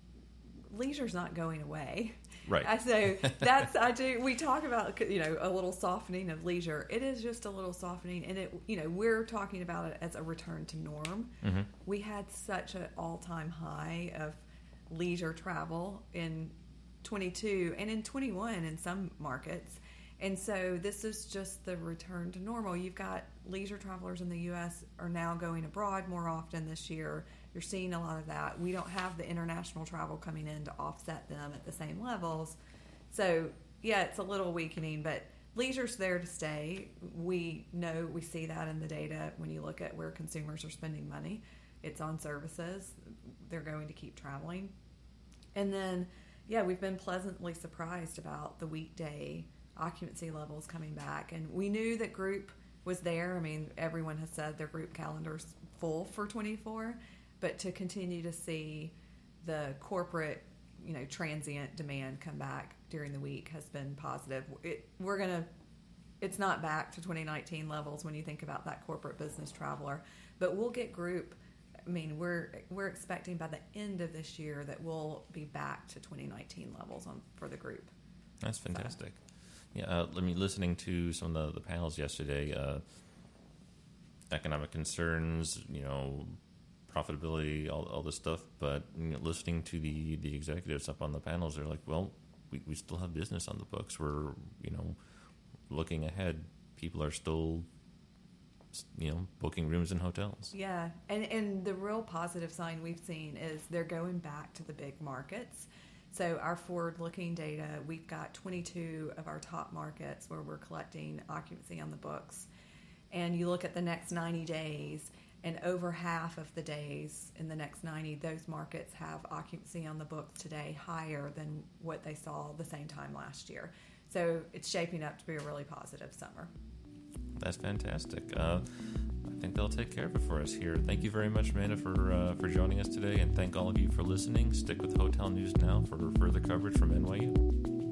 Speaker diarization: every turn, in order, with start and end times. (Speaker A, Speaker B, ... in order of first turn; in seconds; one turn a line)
Speaker A: 0.7-32.6
Speaker B: 2.5-3.6
Speaker B: 11.4-11.7
Speaker A: 33.1-44.7
Speaker A: 45.5-65.5
Speaker A: 66.2-77.9
Speaker B: 78.4-79.2
Speaker B: 79.7-82.8
Speaker B: 84.3-95.0
Speaker B: 95.7-97.7
Speaker B: 98.7-100.5
Speaker A: 100.5-112.5
Speaker A: 113.1-126.5
Speaker B: 127.4-137.4